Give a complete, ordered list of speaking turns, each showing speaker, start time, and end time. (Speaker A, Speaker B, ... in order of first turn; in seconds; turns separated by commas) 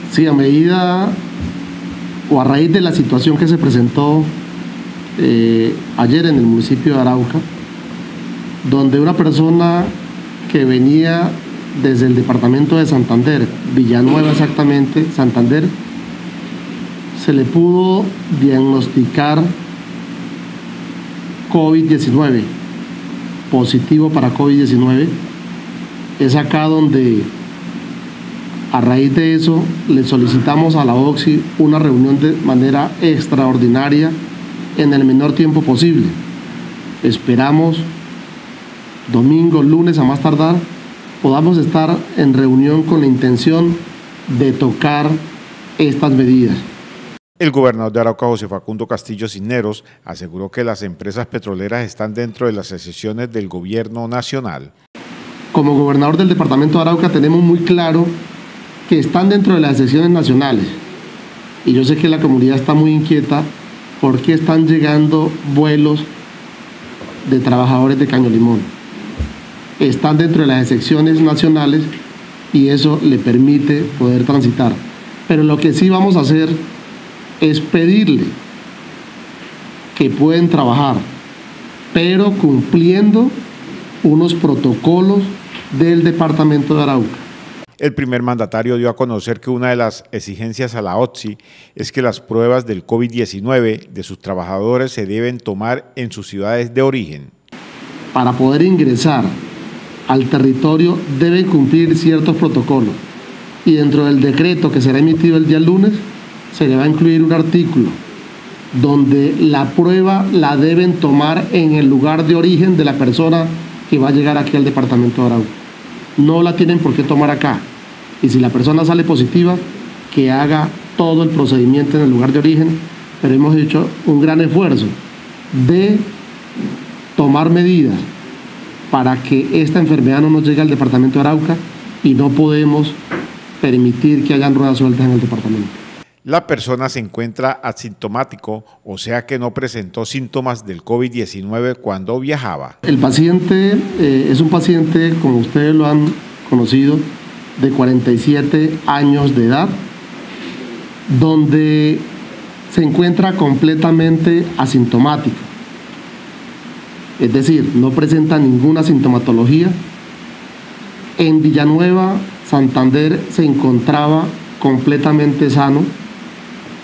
Speaker A: 0.1-1.2, Speaker A: 2.3-4.3, Speaker A: 5.2-7.5, Speaker A: 8.6-9.9, Speaker A: 10.5-15.7, Speaker A: 17.1-19.5, Speaker A: 21.5-22.5, Speaker A: 23.5-25.2, Speaker A: 26.2-27.3, Speaker A: 28.7-34.2, Speaker A: 34.8-36.2, Speaker A: 37.0-37.9, Speaker A: 39.1-40.7, Speaker A: 41.2-45.2, Speaker A: 45.8-46.6, Speaker B: 47.4-54.7, Speaker A: 55.5-58.1, Speaker A: 58.9-60.8, Speaker A: 61.6-66.1, Speaker A: 67.2-68.7, Speaker A: 69.8-71.9, Speaker A: 72.5-76.7, Speaker A: 77.4-78.4, Speaker A: 79.9-81.1, Speaker A: 81.9-83.3, Speaker A: 84.0-87.2, Speaker B: 87.8-97.3, Speaker A: 98.1-99.3, Speaker A: 100.1-103.0, Speaker A: 103.7-108.0, Speaker A: 108.7-115.5, Speaker A: 116.2-117.7, Speaker A: 118.2-124.9, Speaker A: 125.5-126.1, Speaker A: 127.2-128.1, Speaker A: 128.9-133.0, Speaker A: 133.6-135.8, Speaker B: 136.2-142.8, Speaker A: 142.8-149.8, Speaker A: 151.1-152.1, Speaker A: 152.7-155.5, Speaker A: 157.2-159.8, Speaker A: 161.2-165.9